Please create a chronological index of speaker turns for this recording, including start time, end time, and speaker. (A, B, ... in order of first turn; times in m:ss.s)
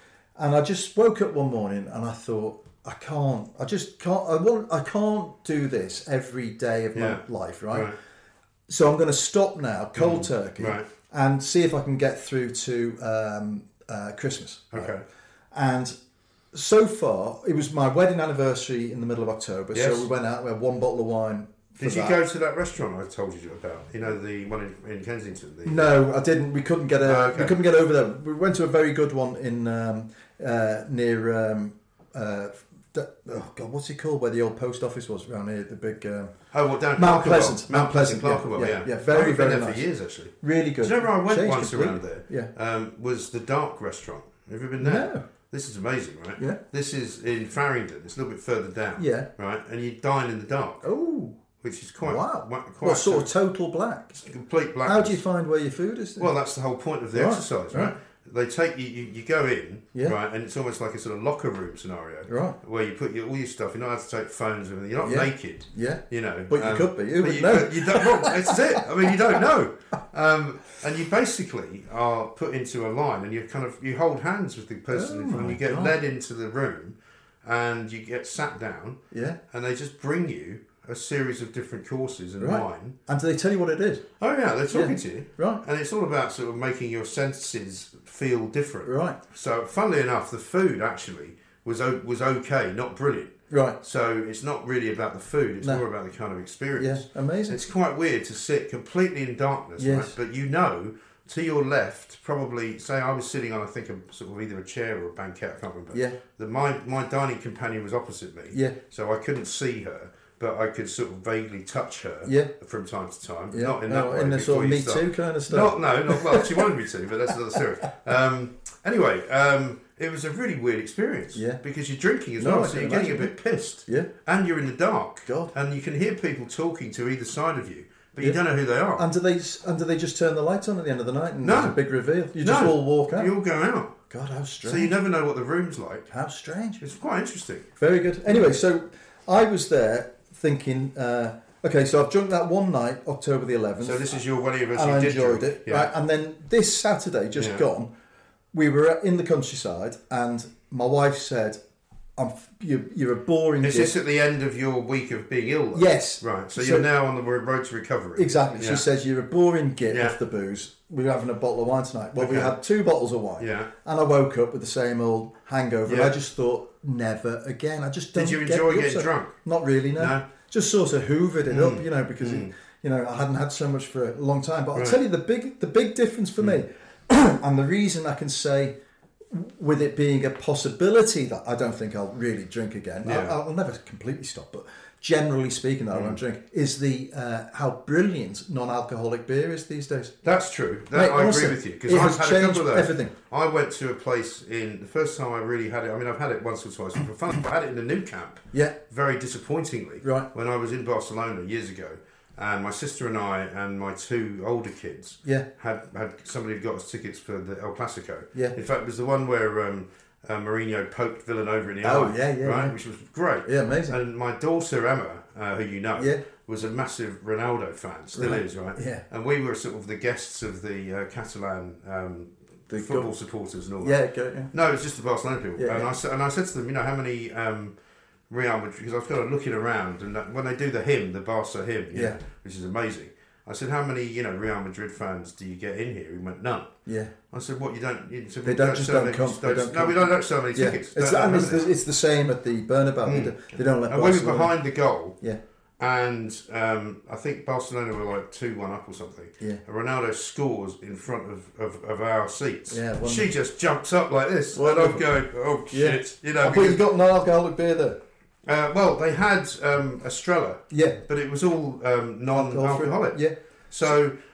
0:00.4-0:07.9 A
0:07.0-0:08.0 B
0:08.7-0:14.9 A
0:10.0-0:10.9 B
0:14.7-0:15.0 B
0:15.5-0:16.0 A
0:16.5-0:22.2 A
0:19.7-0:20.1 B
0:21.8-0:26.0 B
0:25.6-0:36.4 A
0:27.0-0:27.6 B
0:36.5-0:50.9 B
0:37.0-0:42.5 A
0:44.8-0:45.2 A
0:49.0-0:49.3 A
0:50.8-0:51.4 A
0:51.6-0:53.3 B
0:52.0-0:54.2 A
0:54.2-0:55.2 B
0:54.8-0:56.3 A
0:56.2-1:23.0 B
0:57.1-0:57.9 A
1:02.3-1:02.6 A
1:05.0-1:08.8 A
1:14.9-1:16.0 A
1:19.1-1:19.4 A
1:22.4-1:24.0 A
1:24.2-2:09.1 B
1:24.7-1:25.6 A
1:28.8-1:29.2 A
1:33.5-1:33.8 A
1:36.8-1:37.6 A
1:39.8-1:40.1 A
1:45.9-1:46.2 A
1:48.5-1:48.8 A
1:52.2-1:52.5 A
1:53.5-1:56.7 A
2:01.3-2:01.6 A
2:02.4-2:03.3 A
2:05.3-2:05.5 A
2:09.0-2:13.3 A
2:11.4-2:11.8 B
2:12.4-2:13.9 B
2:14.1-2:15.0 A
2:14.6-2:16.1 B
2:16.1-2:16.9 A
2:16.8-2:17.7 B
2:17.8-2:27.9 A
2:23.8-2:25.9 B
2:27.4-2:27.6 B
2:28.5-2:31.6 A
2:32.2-2:34.0 A
2:33.6-2:38.8 B
2:35.7-2:36.9 A
2:38.2-2:58.8 A
2:39.9-2:40.2 B
2:42.2-2:42.5 B
2:43.4-2:43.7 B
2:45.9-2:46.1 B
2:48.2-2:49.4 B
2:50.0-2:50.2 B
2:51.5-2:52.5 B
2:54.7-2:55.0 B
2:59.3-3:10.1 A
3:03.0-3:03.4 B
3:05.9-3:06.2 B
3:10.2-3:44.0 B
3:10.9-3:13.1 A
3:31.8-3:32.8 A
3:33.4-3:34.0 A
3:36.0-3:36.2 A
3:38.1-3:39.0 A
3:42.7-3:43.1 A
3:43.8-3:44.5 A
3:44.5-3:47.8 B
3:45.6-3:45.9 A
3:48.3-3:56.7 B
3:51.9-3:52.2 A
3:56.9-3:57.1 A
3:57.3-4:01.7 B
3:58.4-4:04.5 A
4:03.0-4:05.2 B
4:05.8-4:16.8 B
4:12.7-4:13.3 A
4:14.5-4:15.1 A
4:15.7-4:18.0 A
4:18.5-4:23.2 B
4:20.7-4:21.0 A
4:22.3-4:23.3 A
4:23.7-4:24.1 B